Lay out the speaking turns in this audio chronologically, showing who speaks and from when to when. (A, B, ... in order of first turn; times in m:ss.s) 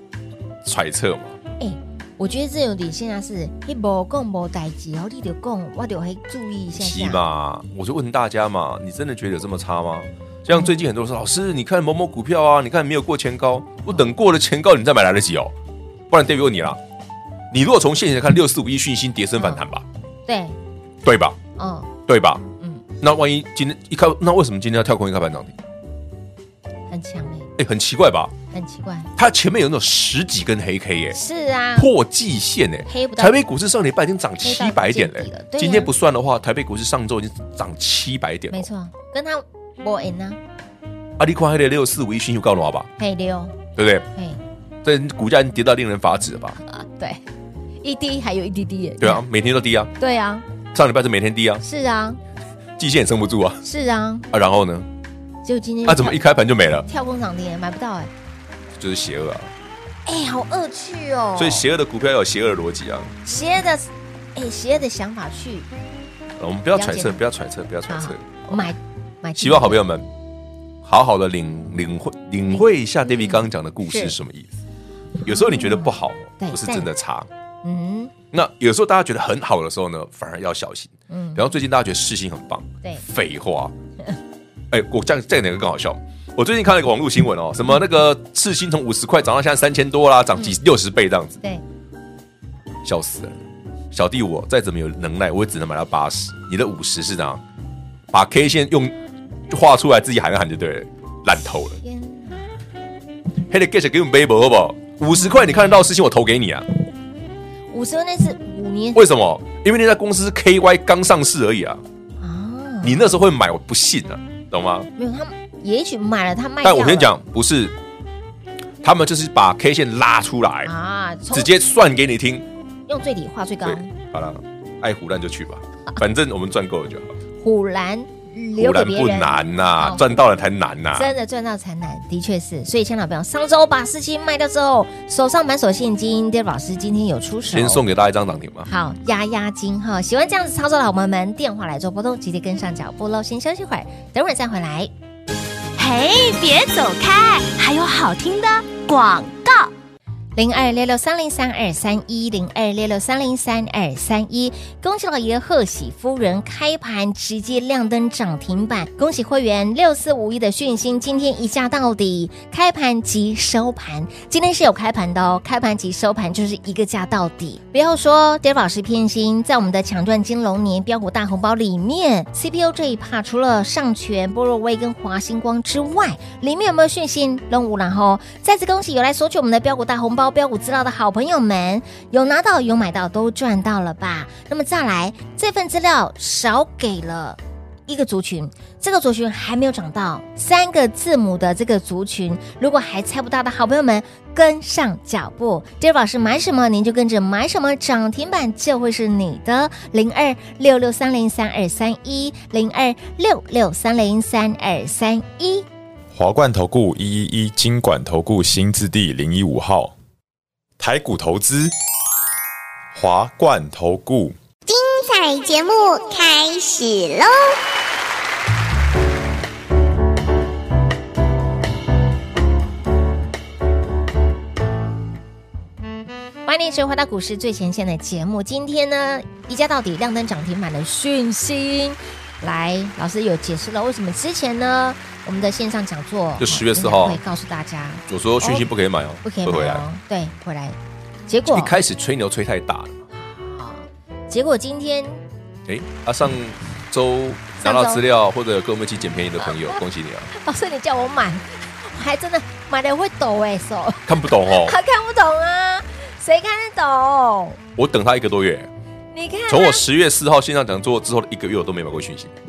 0:00.6-0:01.4 A
0:01.6-0:07.2 B
0:06.7-0:15.5 A
0:16.1-0:16.8 A
0:17.5-0:19.8 A
0:19.4-0:19.6 B
0:20.3-0:20.6 B
0:21.0-0:21.4 A
0:21.6-0:21.9 B
0:22.1-0:22.4 A
0:23.0-0:25.6 A
0:26.9-0:27.5 B
0:27.6-0:28.3 A
0:28.5-0:29.1 B
0:29.2-0:31.2 A
0:31.1-0:31.9 B
0:31.8-0:38.7 A
0:32.9-0:33.4 B
0:34.4-0:35.9 B
0:38.5-0:40.4 B
0:41.2-0:42.9 A
0:43.0-0:43.6 B
0:43.8-0:44.1 A
0:44.1-0:44.4 B
0:44.8-0:46.6 A
0:46.6-0:47.2 B
0:47.8-0:49.2 B
0:49.0-0:49.9 A
0:50.0-0:50.4 B
0:50.7-0:51.6 A
0:51.6-0:52.2 B
0:52.8-0:53.6 A
0:53.6-0:54.3 B
0:54.3-0:54.9 A
0:55.4-0:56.2 B
0:55.8-0:56.9 A
0:56.9-0:58.1 B
0:58.7-0:59.5 A
1:00.0-1:01.6 B
1:01.4-1:03.1 A
1:03.2-1:05.7 B
1:06.4-1:08.7 A
1:06.7-1:07.2 B
1:07.9-1:09.8 B
1:09.4-1:10.1 A
1:10.8-1:14.6 A
1:12.5-1:14.2 B
1:15.2-1:16.9 B
1:15.2-1:17.3 A
1:17.6-1:18.1 B
1:18.3-1:23.7 A
1:21.1-1:21.4 B
1:24.7-1:31.4 A
1:32.8-1:33.4 A
1:33.9-1:37.4 A
1:38.1-1:38.9 A
1:39.5-1:41.8 A
1:41.6-1:42.6 B
1:43.5-1:46.7 A
1:45.1-1:45.9 B
1:47.7-1:49.1 B
1:48.9-1:51.8 A
1:52.2-1:53.1 B
1:52.8-1:54.9 A
1:55.0-1:57.1 B
1:56.6-1:57.8 A
1:58.8-2:00.7 A
2:00.6-2:01.5 B
2:01.3-2:02.5 A
2:02.9-2:03.9 B
2:03.6-2:07.2 A
2:07.4-2:10.1 B
2:08.6-2:11.1 A
2:10.9-2:17.8 B
2:17.5-2:18.7 A
2:18.7-2:24.9 B
2:25.8-2:29.7 C
2:30.4-3:25.7 B
3:26.1-3:29.9 D
3:30.8-3:31.7 D
3:32.9-3:34.4 D
3:34.6-3:37.6 E
3:46.4-3:58.7 B
3:56.4-3:57.2 A
3:58.1-3:59.8 A
3:59.2-4:00.8 B
4:01.3-4:01.7 B
4:01.5-4:03.0 A
4:03.1-4:05.2 B
4:05.7-4:10.3 A
4:07.6-4:08.0 B
4:09.5-4:09.8 B
4:10.3-4:17.6 B
4:14.0-4:14.8 A
4:17.8-4:18.7 A
4:19.1-4:19.8 B
4:19.5-4:22.3 A